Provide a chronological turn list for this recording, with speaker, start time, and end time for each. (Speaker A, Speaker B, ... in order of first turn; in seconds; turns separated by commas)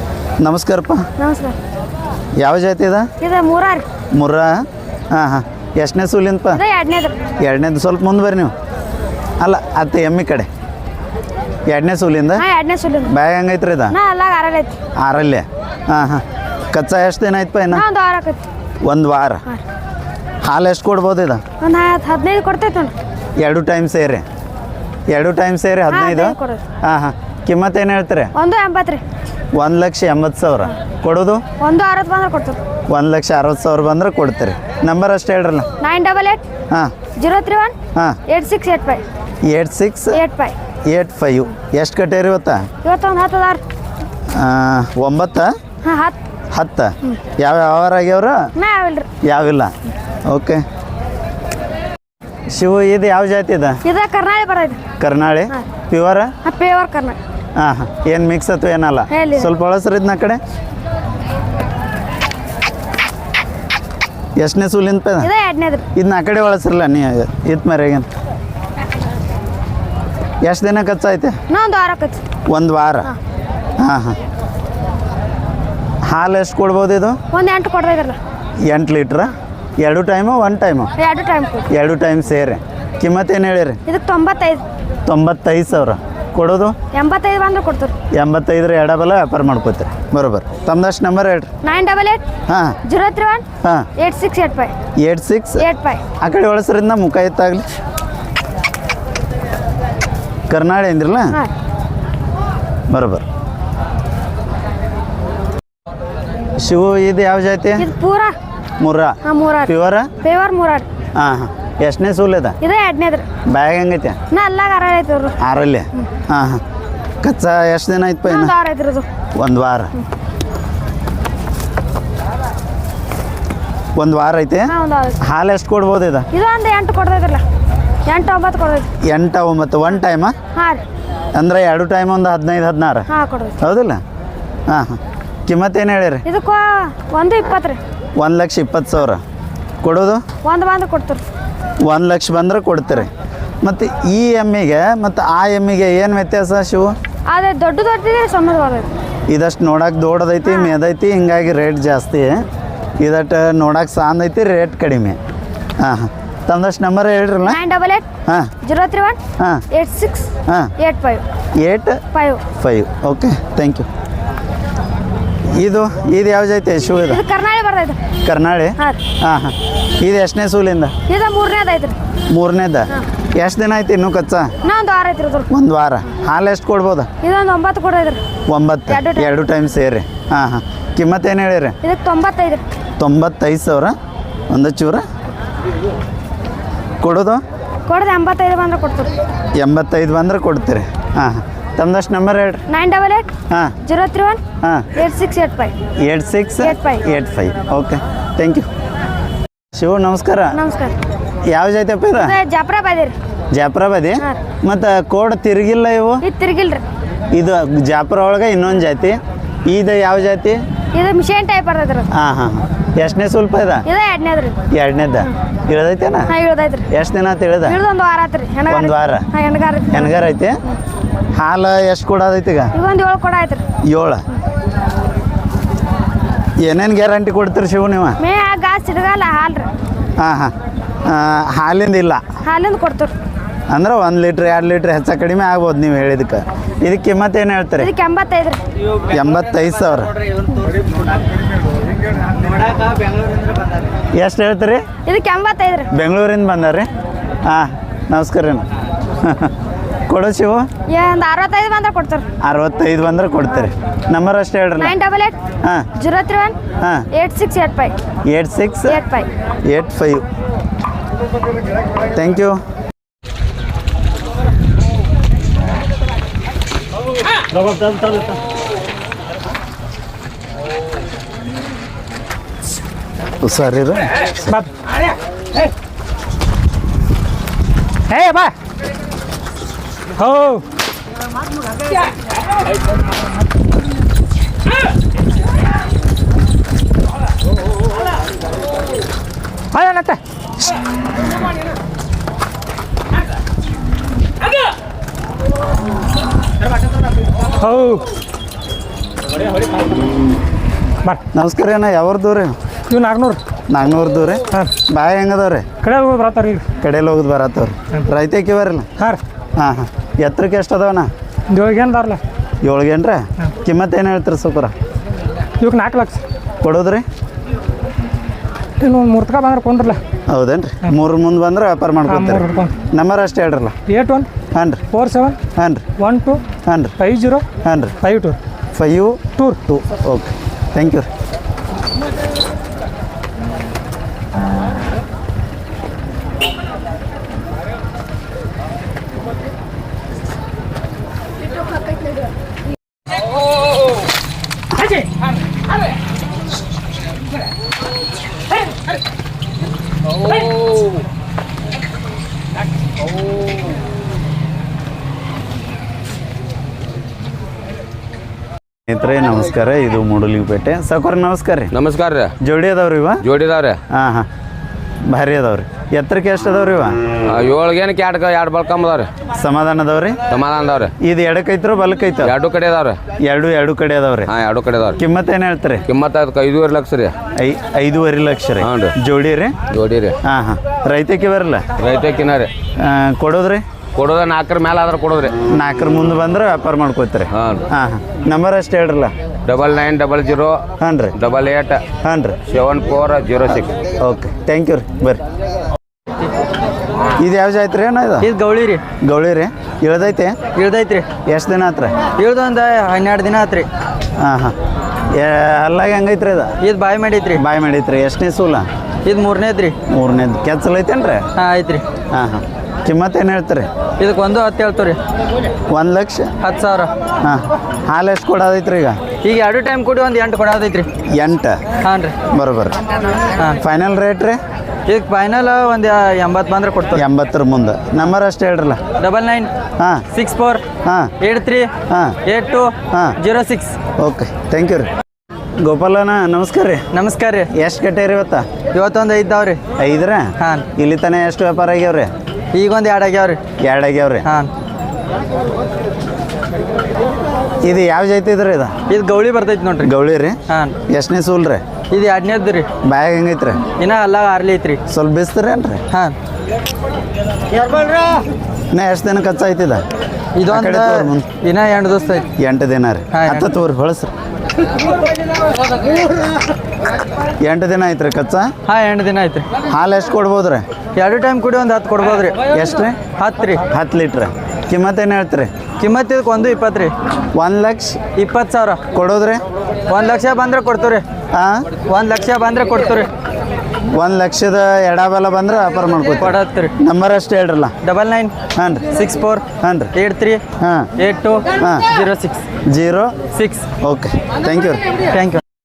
Speaker A: 0.4-1.1, Speaker B: 1.2-1.6, Speaker A: 2.4-3.1, Speaker B: 3.2-3.9, Speaker A: 4.1-6.6, Speaker B: 6.5-7.2, Speaker A: 7.4-8.5, Speaker A: 9.4-10.5, Speaker A: 11.7-12.4, Speaker B: 12.3-13.1, Speaker A: 13.1-13.9, Speaker B: 13.9-14.8, Speaker A: 15.0-17.8, Speaker B: 17.7-18.4, Speaker A: 18.9-19.4, Speaker A: 20.4-21.4, Speaker B: 21.6-22.9, Speaker A: 23.4-24.2, Speaker A: 25.1-28.3, Speaker B: 25.9-26.6, Speaker B: 28.3-29.0, Speaker A: 29.6-31.4, Speaker B: 31.6-32.6, Speaker A: 32.9-35.7, Speaker B: 35.8-36.4, Speaker B: 37.2-37.8, Speaker B: 38.3-39.0, Speaker A: 39.5-40.2, Speaker B: 40.1-40.5, Speaker A: 40.9-42.7, Speaker B: 42.8-43.6, Speaker A: 44.3-45.5, Speaker B: 45.8-46.2, Speaker A: 46.5-48.5, Speaker B: 48.6-49.1, Speaker A: 49.2-49.7, Speaker A: 50.3-50.6, Speaker A: 52.5-53.8, Speaker B: 53.8-54.8, Speaker A: 55.0-56.3, Speaker B: 56.4-57.2, Speaker A: 57.6-60.4, Speaker B: 59.1-59.5, Speaker A: 64.4-65.3, Speaker B: 65.2-65.8, Speaker A: 66.0-68.1, Speaker A: 70.4-71.4, Speaker B: 71.5-72.2, Speaker A: 72.5-73.1, Speaker A: 73.8-74.2, Speaker A: 76.0-77.2, Speaker B: 77.3-78.2, Speaker A: 78.7-80.9, Speaker B: 81.0-81.7, Speaker A: 81.7-83.8, Speaker B: 83.9-84.6, Speaker A: 85.1-86.8, Speaker B: 86.9-88.0, Speaker A: 88.1-91.5, Speaker B: 91.6-92.2, Speaker A: 92.5-92.8, Speaker B: 92.8-93.5, Speaker A: 93.6-93.9, Speaker B: 94.0-94.7, Speaker A: 95.0-95.7, Speaker B: 95.6-96.0, Speaker A: 96.2-97.7, Speaker A: 100.5-101.4, Speaker A: 102.9-103.2, Speaker A: 106.6-107.9, Speaker B: 107.8-108.3, Speaker A: 108.8-110.1, Speaker B: 109.2-110.9, Speaker A: 111.2-112.6, Speaker B: 112.6-113.3, Speaker A: 113.5-114.2, Speaker B: 114.3-115.4, Speaker A: 115.4-116.6, Speaker A: 117.2-118.5, Speaker B: 118.2-119.1, Speaker A: 119.4-119.9, Speaker A: 124.0-126.3, Speaker B: 124.7-125.2, Speaker B: 126.3-127.4, Speaker B: 128.1-128.9, Speaker A: 129.1-130.3, Speaker B: 130.5-130.8, Speaker A: 131.3-133.1, Speaker B: 133.1-133.6, Speaker A: 133.6-134.0, Speaker A: 134.7-136.2, Speaker B: 136.2-137.8, Speaker A: 138.2-139.2, Speaker A: 139.8-140.2, Speaker B: 140.4-141.2, Speaker A: 141.8-143.1, Speaker A: 143.6-146.9, Speaker B: 147.3-148.9, Speaker A: 149.3-152.4, Speaker B: 150.4-150.8, Speaker A: 153.0-155.2, Speaker A: 155.8-157.6, Speaker B: 157.4-158.1, Speaker A: 158.3-158.5, Speaker B: 158.6-159.2, Speaker A: 159.4-159.7, Speaker B: 159.7-161.2, Speaker A: 160.5-160.7, Speaker A: 161.6-162.0, Speaker B: 162.1-162.4, Speaker A: 162.6-163.9, Speaker A: 165.5-167.2, Speaker B: 167.1-168.0, Speaker A: 168.2-170.9, Speaker B: 171.1-172.0, Speaker A: 172.3-174.5, Speaker B: 174.6-175.5, Speaker A: 175.5-177.1, Speaker B: 177.2-178.2, Speaker A: 178.5-181.8, Speaker B: 178.9-179.3, Speaker B: 181.8-182.6, Speaker A: 183.0-184.0, Speaker A: 184.5-185.0, Speaker A: 187.0-187.4, Speaker B: 187.9-189.1, Speaker A: 189.6-192.7, Speaker B: 192.7-193.3, Speaker A: 193.5-193.8, Speaker B: 193.8-195.7, Speaker A: 194.6-194.9, Speaker A: 196.0-198.7, Speaker B: 196.6-197.1, Speaker A: 199.7-200.6, Speaker B: 200.5-200.9, Speaker A: 201.4-202.4, Speaker B: 202.2-203.2, Speaker A: 203.5-206.2, Speaker B: 206.2-206.8, Speaker A: 207.3-210.6, Speaker B: 210.9-212.1, Speaker A: 212.1-213.8, Speaker B: 213.8-214.6, Speaker A: 214.7-216.3, Speaker B: 216.3-216.9, Speaker A: 216.9-217.8, Speaker B: 217.6-220.2, Speaker A: 218.7-219.3, Speaker A: 219.9-220.6, Speaker A: 221.3-222.7, Speaker B: 222.7-223.6, Speaker A: 223.8-224.3, Speaker A: 226.6-228.2, Speaker B: 228.2-229.7, Speaker A: 230.2-230.5, Speaker A: 231.1-232.2, Speaker B: 232.4-233.1, Speaker A: 233.7-237.9, Speaker B: 237.8-238.6, Speaker A: 239.1-240.1, Speaker A: 244.2-244.8, Speaker B: 245.1-245.9, Speaker A: 245.9-246.9, Speaker A: 247.4-248.7, Speaker A: 249.2-249.5, Speaker A: 250.1-250.7, Speaker B: 250.9-252.3, Speaker A: 252.4-254.9, Speaker B: 254.8-255.4, Speaker A: 255.6-255.9, Speaker B: 256.0-256.6, Speaker A: 256.8-257.1, Speaker B: 257.1-257.9, Speaker A: 258.3-259.0, Speaker B: 258.9-259.3, Speaker A: 259.7-260.2, Speaker A: 262.1-262.6, Speaker A: 273.4-274.5, Speaker C: 278.1-278.5, Speaker C: 280.2-280.6, Speaker C: 289.7-290.2, Speaker C: 297.6-298.1, Speaker A: 301.3-302.6, Speaker C: 302.9-303.4, Speaker A: 303.7-305.7, Speaker C: 305.8-306.7, Speaker A: 306.8-308.9, Speaker A: 309.6-311.1, Speaker C: 311.5-312.2, Speaker A: 312.6-314.7, Speaker C: 315.6-316.2, Speaker A: 316.6-317.1, Speaker C: 318.8-320.0, Speaker A: 320.3-323.8, Speaker C: 322.1-322.8, Speaker C: 323.9-324.3, Speaker A: 324.5-324.9, Speaker C: 324.9-325.4, Speaker A: 325.6-325.8, Speaker C: 326.0-326.4, Speaker A: 326.6-327.0, Speaker C: 327.0-327.4, Speaker A: 327.6-328.0, Speaker C: 328.0-328.4, Speaker A: 328.7-331.1, Speaker A: 358.9-361.8, Speaker D: 361.7-362.4, Speaker A: 362.4-363.2, Speaker D: 363.2-363.8, Speaker A: 363.9-364.3, Speaker A: 365.1-367.0, Speaker D: 367.3-369.1, Speaker A: 369.4-370.2, Speaker D: 370.3-370.9, Speaker A: 371.0-372.3, Speaker D: 372.2-373.0, Speaker A: 373.2-374.3, Speaker D: 374.3-375.0, Speaker A: 375.0-375.9, Speaker D: 375.9-377.2, Speaker A: 377.4-379.6, Speaker D: 378.6-378.9, Speaker D: 379.7-380.2, Speaker A: 380.2-381.7, Speaker D: 381.8-382.5, Speaker A: 382.8-383.6, Speaker D: 383.9-385.4, Speaker A: 385.5-389.1, Speaker D: 387.4-387.7, Speaker D: 389.5-391.9, Speaker A: 390.8-391.2, Speaker A: 392.0-392.4, Speaker D: 392.5-393.8, Speaker A: 394.0-395.2, Speaker A: 397.2-398.3, Speaker E: 398.2-398.8, Speaker A: 399.0-400.4, Speaker E: 400.6-401.1, Speaker A: 401.3-402.0, Speaker E: 402.2-403.7, Speaker A: 404.2-404.6, Speaker A: 405.1-406.5, Speaker E: 406.6-407.4, Speaker A: 407.4-408.7, Speaker E: 409.1-409.8, Speaker A: 409.9-411.3, Speaker E: 411.4-411.8, Speaker A: 412.1-413.7, Speaker E: 414.0-415.0, Speaker A: 415.7-416.3, Speaker E: 416.4-416.9, Speaker A: 417.2-419.0, Speaker E: 419.2-420.9, Speaker A: 421.1-421.6, Speaker E: 421.8-422.1, Speaker A: 422.3-422.8, Speaker A: 423.6-424.4, Speaker E: 424.9-427.0, Speaker A: 426.9-428.8, Speaker E: 429.0-429.5, Speaker A: 429.8-430.1, Speaker E: 430.1-430.6, Speaker A: 430.8-431.1, Speaker E: 431.2-431.7, Speaker A: 431.9-432.2, Speaker E: 432.2-433.8, Speaker A: 432.9-433.2, Speaker A: 434.0-434.9, Speaker A: 435.6-436.9, Speaker E: 436.9-437.5, Speaker A: 437.5-438.5, Speaker E: 438.7-439.6, Speaker A: 439.8-442.1, Speaker E: 440.4-440.7, Speaker E: 442.5-443.4, Speaker A: 443.6-444.3, Speaker E: 444.2-444.5, Speaker A: 447.6-448.8, Speaker E: 448.9-449.9, Speaker A: 449.8-451.6, Speaker E: 450.5-450.8, Speaker E: 451.9-452.7, Speaker A: 452.8-453.6, Speaker E: 453.8-454.8, Speaker A: 454.9-455.8, Speaker A: 458.7-459.8, Speaker E: 460.4-462.3, Speaker A: 460.5-461.3, Speaker A: 462.4-464.1, Speaker E: 463.1-463.5, Speaker A: 467.4-468.5, Speaker E: 468.7-469.5, Speaker A: 469.7-470.6, Speaker E: 471.0-472.4, Speaker A: 472.5-473.0, Speaker E: 473.2-473.6, Speaker A: 473.7-475.5, Speaker E: 475.8-476.9, Speaker A: 477.3-478.0, Speaker E: 478.2-478.8, Speaker A: 478.9-479.4, Speaker E: 479.9-481.0, Speaker A: 481.3-481.7, Speaker E: 481.9-483.1, Speaker A: 483.9-487.8, Speaker E: 486.2-486.7, Speaker E: 487.8-488.3, Speaker A: 488.6-488.9, Speaker E: 488.9-490.4, Speaker A: 489.6-489.9, Speaker A: 490.6-490.9, Speaker E: 491.0-492.4, Speaker A: 491.6-491.9, Speaker A: 492.7-493.1, Speaker E: 493.3-493.6, Speaker A: 493.8-494.9, Speaker E: 495.1-495.4